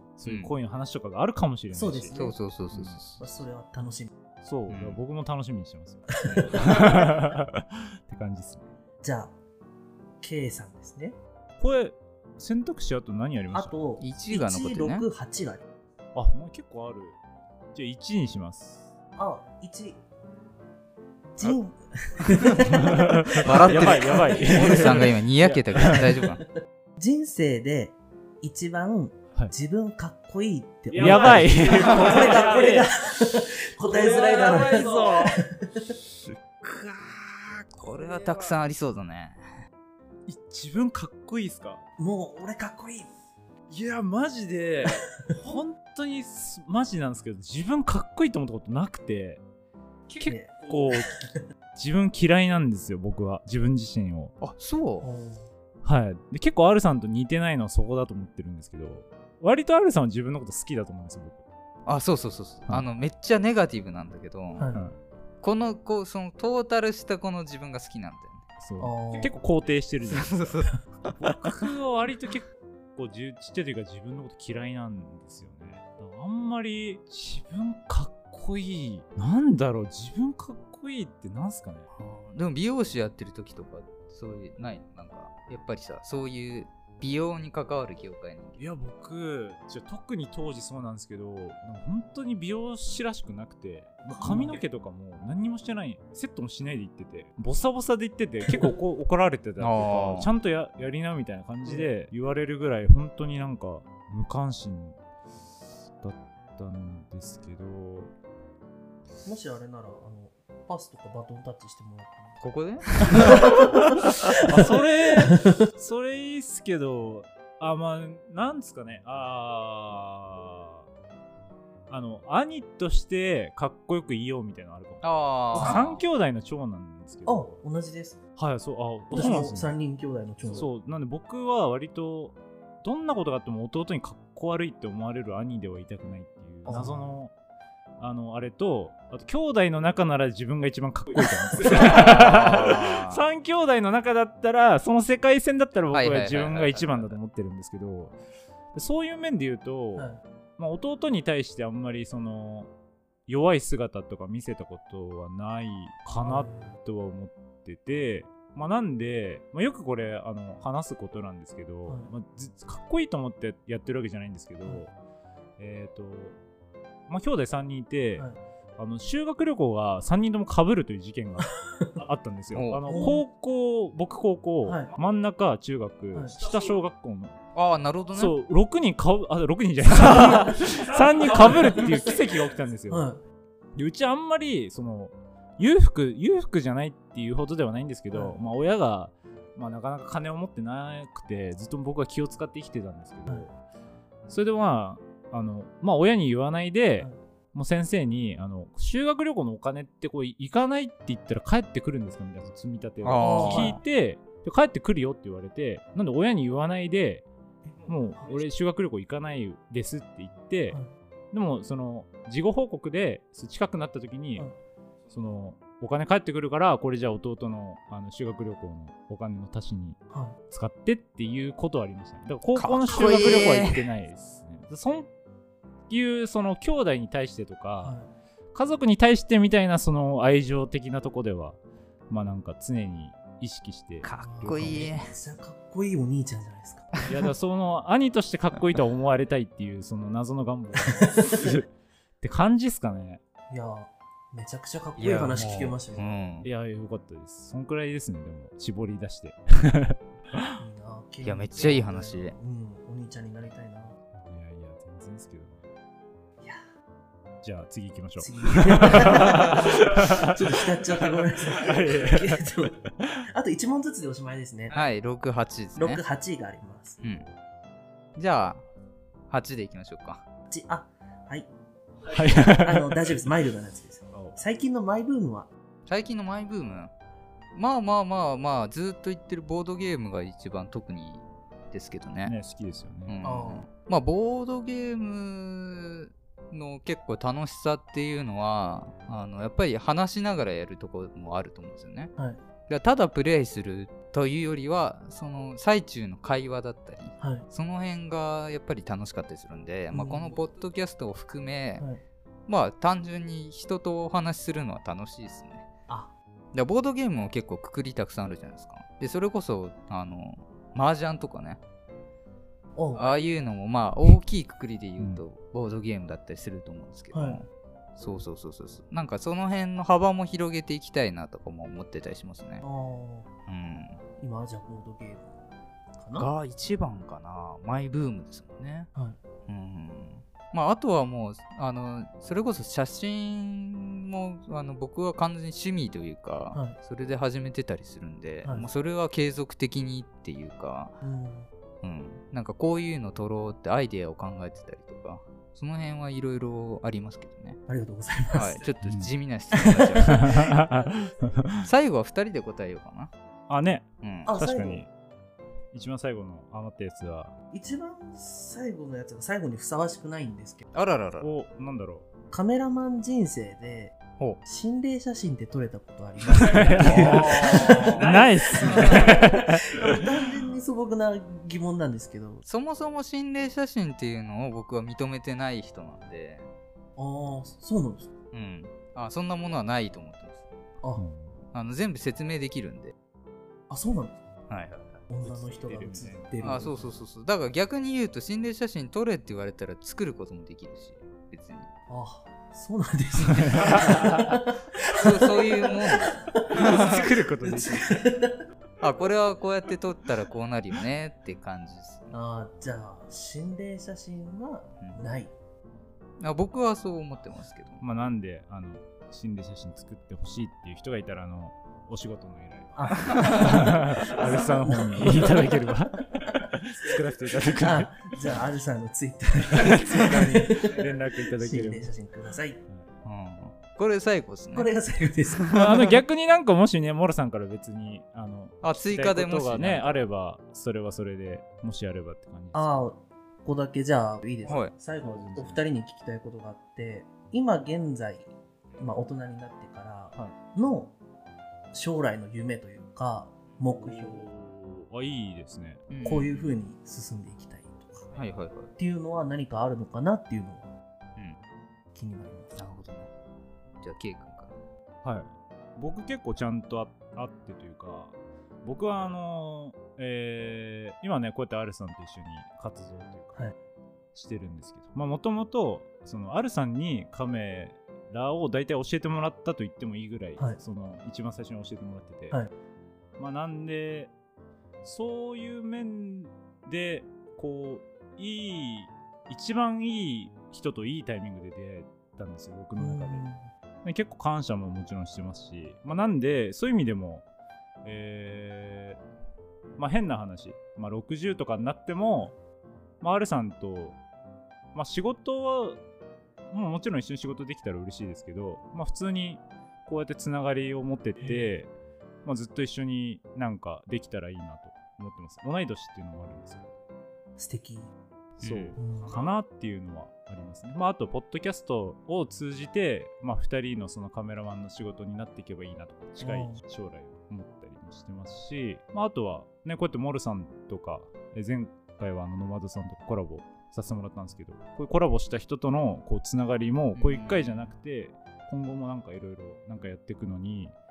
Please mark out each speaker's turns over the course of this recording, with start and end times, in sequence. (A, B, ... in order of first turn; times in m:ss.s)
0:00.2-0:02.2 A
0:00.2-0:00.5 B
0:01.7-0:02.4 C
0:02.2-0:03.2 B
0:02.7-0:03.0 A
0:03.2-0:04.1 C
0:04.4-0:08.7 A
0:04.7-0:05.0 B
0:06.2-0:06.6 B
0:06.3-0:07.0 C
0:09.0-0:09.3 C
0:10.2-0:11.2 C
0:11.6-0:13.8 A
0:13.5-0:15.6 C
0:14.0-0:15.0 B
0:16.2-0:17.2 A
0:17.7-0:18.9 A
0:19.2-0:20.0 C
0:21.4-0:25.1 C
0:22.6-0:26.2 A
0:23.3-0:26.4 B
0:25.9-0:26.3 C
0:27.0-0:36.0 C
0:30.9-0:32.9 A
0:31.0-0:32.4 B
0:33.8-0:35.4 A
0:36.1-0:38.6 A
0:37.8-0:39.4 B
0:40.3-0:41.8 A
0:42.0-0:43.1 C
0:43.7-0:49.4 A
0:50.1-0:51.2 A
0:50.2-0:51.4 C
0:51.8-0:54.3 A
0:54.4-0:55.1 B
0:55.0-0:55.5 C
0:55.8-1:01.4 A
1:01.9-1:04.7 B
1:04.6-1:04.8 C
1:04.7-1:05.0 A
1:05.4-1:08.5 B
1:08.6-1:10.5 A
1:08.8-1:09.3 C
1:10.1-1:11.4 B
1:11.2-1:21.9 A
1:22.0-1:28.6 B
1:28.6-1:45.0 A
1:34.1-1:34.6 C
1:39.6-1:40.3 B
1:45.8-1:48.1 A
1:49.2-1:52.4 C
1:52.4-1:53.4 B
1:53.0-1:55.6 C
1:53.1-2:00.8 A
2:01.9-2:07.6 A
2:05.0-2:06.0 B
2:05.6-2:05.8 C
2:07.3-2:08.2 C
2:08.4-2:09.7 A
2:09.1-2:10.7 C
2:10.5-2:17.3 A
2:16.7-2:17.2 C
2:18.0-2:28.2 A
2:21.7-2:23.2 B
2:25.9-2:27.2 B
2:28.7-2:32.7 A
2:30.0-2:30.2 C
2:33.3-2:44.9 A
2:36.1-2:36.8 C
2:45.6-2:46.4 A
2:47.1-2:57.4 A
2:52.5-2:53.1 B
2:52.9-2:53.2 C
2:54.7-2:54.9 C
2:57.5-2:58.4 B
2:58.1-3:03.1 A
3:02.9-3:03.2 C
3:03.8-3:13.5 A
3:08.1-3:08.4 C
3:14.3-3:27.3 A
3:23.0-3:23.8 B
3:23.2-3:23.8 C
3:27.7-3:28.3 C
3:27.9-3:30.8 A
3:31.3-3:34.5 A
3:35.1-3:40.0 A
3:40.1-3:40.4 C
3:40.5-3:45.1 A
3:42.6-3:43.8 B
3:45.9-3:48.0 A
3:47.8-3:48.1 C
3:48.5-3:51.6 A
3:52.1-3:54.9 A
3:54.0-3:55.1 B
3:54.2-3:57.0 C
3:57.1-4:03.2 A
4:00.8-4:01.5 C
4:03.5-4:06.1 C
4:05.0-4:06.5 B
4:06.4-4:10.6 A
4:10.6-4:14.0 C
4:11.2-4:12.4 B
4:14.2-4:15.7 A
4:17.4-4:23.2 A
4:18.2-4:22.8 C
4:23.3-4:24.8 C
4:24.7-4:26.0 B
4:25.8-4:27.0 C
4:27.0-4:27.3 B
4:28.2-4:28.6 B
4:29.3-4:30.2 B
4:30.5-4:31.5 C
4:32.1-4:33.3 A
4:32.5-4:35.5 C
4:34.1-4:34.4 A
4:35.9-4:36.9 B
4:37.6-4:42.4 B
4:42.2-4:43.2 A
4:43.1-4:52.1 B
4:43.2-4:43.7 C
4:52.7-5:01.9 B
4:57.2-4:57.5 C
4:59.9-5:00.3 C
5:02.5-5:05.7 B
5:06.5-5:11.6 B
5:12.8-5:13.2 C
5:13.0-5:22.6 B
5:17.1-5:17.4 C
5:22.6-5:23.3 C
5:23.5-5:24.0 B
5:24.2-5:25.4 C
5:26.0-5:26.3 C
5:26.2-5:28.9 B
5:29.5-5:41.0 B
5:41.0-5:41.5 C
5:41.8-5:47.6 B
5:47.7-5:48.6 C
5:48.3-5:50.6 B
5:48.8-5:49.1 A
5:49.5-5:50.6 C
5:50.1-5:51.7 A
5:51.6-5:53.1 B
5:53.5-5:54.9 A
5:54.0-5:54.3 B
5:54.3-5:54.8 C
5:55.7-5:57.4 A
5:57.5-6:00.6 C
6:00.7-6:01.3 B
6:01.2-6:02.1 A
6:02.3-6:12.4 C
6:06.3-6:10.0 A
6:06.8-6:09.2 B
6:12.4-6:16.5 B
6:17.0-6:18.1 C
6:18.3-6:20.5 B
6:21.0-6:21.4 A
6:21.5-6:22.9 B
6:23.7-6:24.2 C
6:24.5-6:25.0 B
6:25.1-6:26.8 C
6:25.2-6:26.7 A
6:26.4-6:31.7 B
6:31.9-6:36.8 C
6:33.3-6:34.4 A
6:34.9-6:37.0 B
6:36.5-6:38.0 A
6:37.4-6:38.4 C
6:38.8-6:42.1 B
6:42.1-6:45.3 C
6:44.8-6:45.1 B
6:46.2-6:47.8 B
6:47.8-6:58.4 A
6:52.8-6:55.5 C
6:57.6-7:02.6 C
6:59.5-7:01.9 A
7:03.0-7:04.7 B
7:04.5-7:05.5 C
7:05.4-7:06.0 B
7:05.5-7:12.8 A
7:08.6-7:10.0 B
7:12.5-7:18.3 C
7:14.5-7:14.7 B
7:15.0-7:15.6 A
7:18.8-7:20.9 C
7:21.7-7:24.3 C
7:23.8-7:25.8 A
7:25.9-7:26.5 B
7:26.0-7:28.1 C
7:28.2-7:28.7 B
7:28.8-7:30.7 C
7:32.0-7:32.6 C
7:32.6-7:33.1 B
7:33.8-7:34.5 B
7:35.0-7:43.5 A
7:44.1-7:52.4 A
7:53.2-7:54.1 A
7:54.8-8:03.3 A
8:02.8-8:03.5 C
8:03.8-8:07.3 A
8:07.8-8:09.0 A
8:09.8-8:12.3 A
8:13.0-8:14.0 A
8:14.7-8:15.8 A
8:16.5-8:21.7 A
8:21.2-8:21.5 C
8:22.2-8:26.7 A
8:27.4-8:27.9 C
8:28.4-8:50.8 A
8:28.4-8:28.8 B
8:28.8-8:29.1 C
8:36.2-8:36.6 C
8:47.0-8:47.7 B